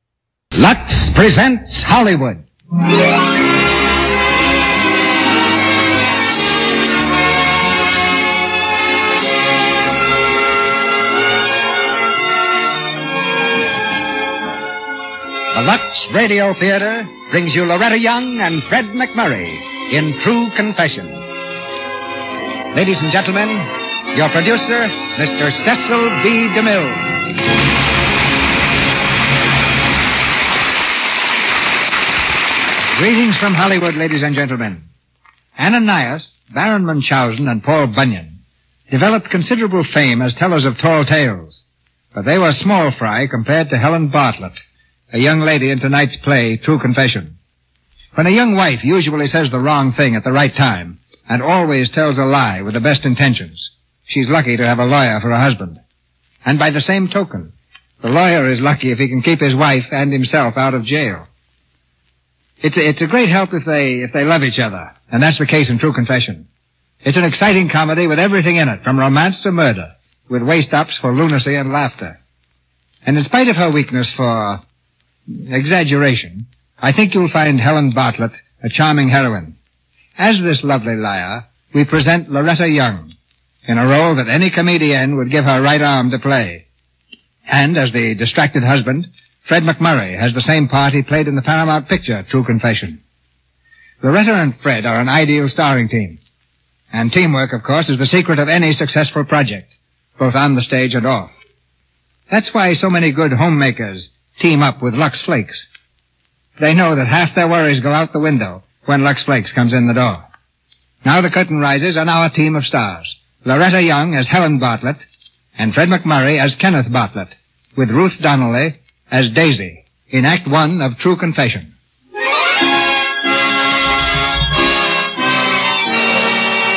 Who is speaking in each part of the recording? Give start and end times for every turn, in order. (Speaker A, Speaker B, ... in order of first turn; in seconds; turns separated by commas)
Speaker A: 0.5-2.4, Speaker A: 15.5-21.2, Speaker A: 22.7-27.2, Speaker A: 33.0-34.9, Speaker A: 35.6-38.4, Speaker A: 38.9-41.6, Speaker A: 42.1-47.4, Speaker A: 48.1-55.8, Speaker A: 56.5-61.3, Speaker A: 62.6-66.5, Speaker A: 67.0-72.2, Speaker A: 73.0-74.6, Speaker A: 75.3-79.5, Speaker A: 80.2-83.1, Speaker A: 83.7-86.6, Speaker A: 87.5-93.0, Speaker A: 94.0-96.2, Speaker A: 96.9-101.3, Speaker A: 102.3-105.7, Speaker A: 106.6-110.2, Speaker A: 111.0-115.0, Speaker A: 115.6-121.7